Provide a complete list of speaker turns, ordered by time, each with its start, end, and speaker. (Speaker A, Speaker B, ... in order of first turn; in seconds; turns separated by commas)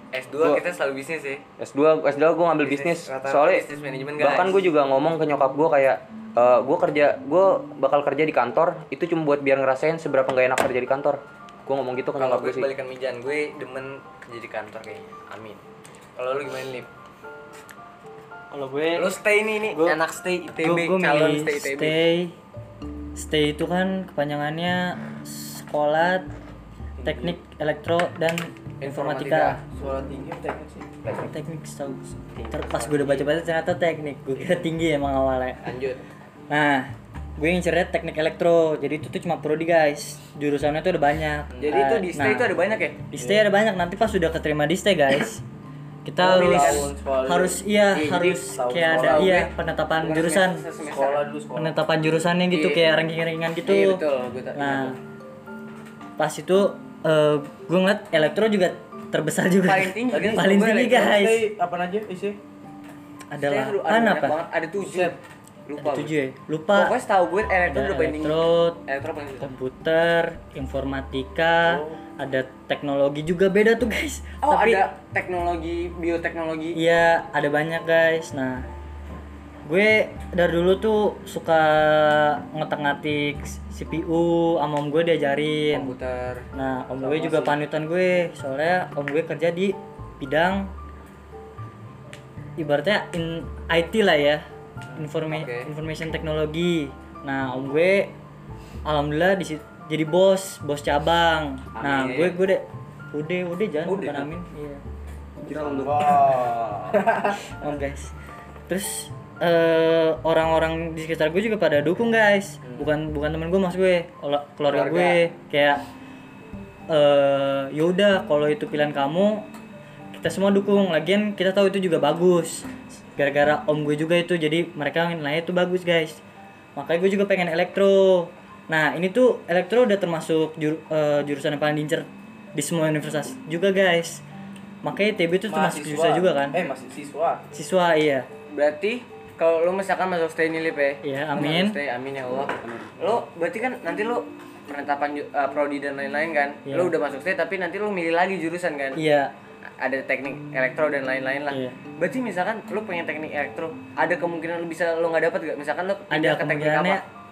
Speaker A: 0.1-1.4, Speaker B: 1.6-3.6, Speaker A: 2.6-4.6, Speaker B: 4.2-12.7, Speaker A: 12.2-15.6, Speaker A: 16.2-16.9, Speaker C: 18.5-19.1, Speaker A: 18.9-22.0, Speaker C: 19.7-20.0, Speaker C: 20.6-22.3, Speaker C: 23.1-26.3, Speaker C: 27.0-29.6, Speaker A: 28.8-29.6, Speaker D: 29.7-30.9, Speaker C: 31.1-35.6, Speaker A: 32.3-33.3, Speaker A: 35.6-36.0, Speaker C: 36.5-42.5, Speaker D: 41.5-41.8, Speaker A: 41.6-43.0, Speaker C: 43.1-45.4, Speaker D: 43.1-43.5, Speaker C: 46.0-50.6, Speaker D: 46.2-47.6, Speaker A: 46.2-46.9, Speaker A: 47.9-49.5, Speaker D: 48.5-49.4, Speaker A: 50.0-51.2, Speaker D: 50.9-51.8, Speaker C: 51.5-54.0, Speaker A: 52.5-52.9, Speaker A: 53.6-55.0, Speaker C: 54.5-55.0, Speaker C: 56.2-61.5, Speaker A: 59.6-61.0, Speaker D: 60.1-62.4, Speaker C: 63.3-64.4, Speaker A: 63.4-65.2, Speaker D: 64.8-65.2, Speaker A: 65.7-66.1, Speaker C: 65.8-66.9, Speaker A: 66.7-69.5, Speaker C: 67.7-68.8, Speaker C: 69.4-74.8, Speaker D: 71.6-72.0, Speaker A: 74.4-76.8, Speaker C: 76.7-78.7, Speaker C: 79.7-85.9, Speaker A: 85.7-86.5, Speaker C: 86.5-90.7, Speaker D: 87.0-87.6, Speaker C: 92.6-94.4, Speaker C: 95.0-98.1, Speaker A: 95.3-95.7, Speaker C: 98.8-104.8, Speaker B: 101.8-102.4, Speaker B: 103.8-104.3, Speaker B: 105.4-107.0, Speaker D: 105.5-107.4, Speaker C: 107.5-108.1, Speaker C: 108.7-115.8, Speaker D: 112.6-112.9, Speaker A: 114.7-115.2, Speaker C: 116.9-119.5, Speaker C: 120.1-126.2, Speaker C: 126.8-134.2, Speaker C: 134.8-136.6, Speaker D: 135.5-137.4, Speaker C: 137.5-138.3, Speaker A: 138.5-149.0, Speaker C: 141.0-141.8, Speaker B: 142.6-142.9, Speaker C: 146.7-146.9, Speaker C: 148.9-149.3, Speaker A: 149.8-157.0, Speaker C: 151.5-151.8, Speaker C: 156.1-157.0